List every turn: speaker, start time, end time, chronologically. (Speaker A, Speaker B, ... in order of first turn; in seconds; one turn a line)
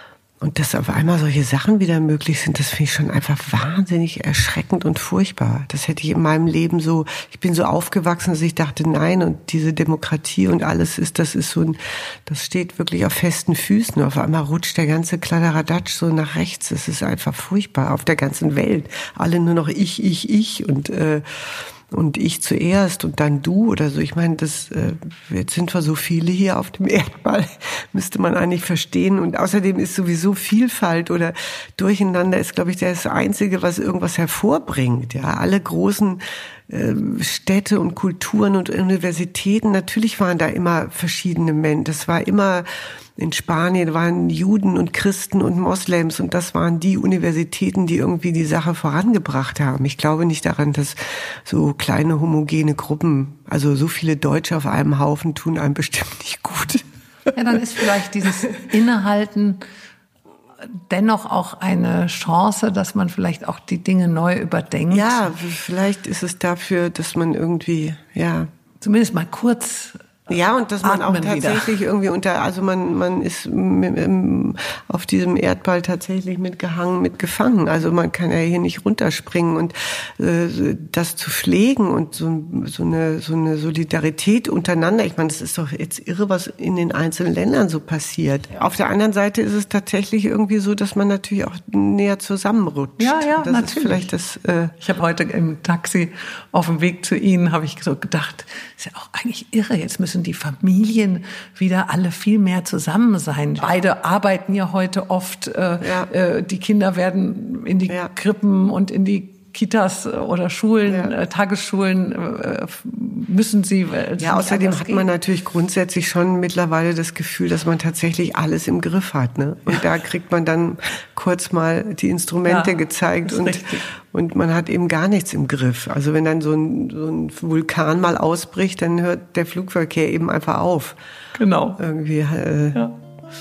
Speaker A: 0.4-57.3
Speaker B: 57.3-59.6
Speaker B: 60.6-65.3
Speaker A: 64.9-68.5
Speaker B: 68.8-70.0
Speaker A: 70.3-94.8
Speaker B: 70.8-71.7
Speaker B: 93.0-94.1
Speaker B: 94.8-115.1
Speaker A: 105.8-106.1
Speaker A: 110.9-111.1
Speaker A: 114.2-131.0
Speaker B: 122.4-123.8
Speaker B: 131.3-131.8
Speaker A: 131.8-132.9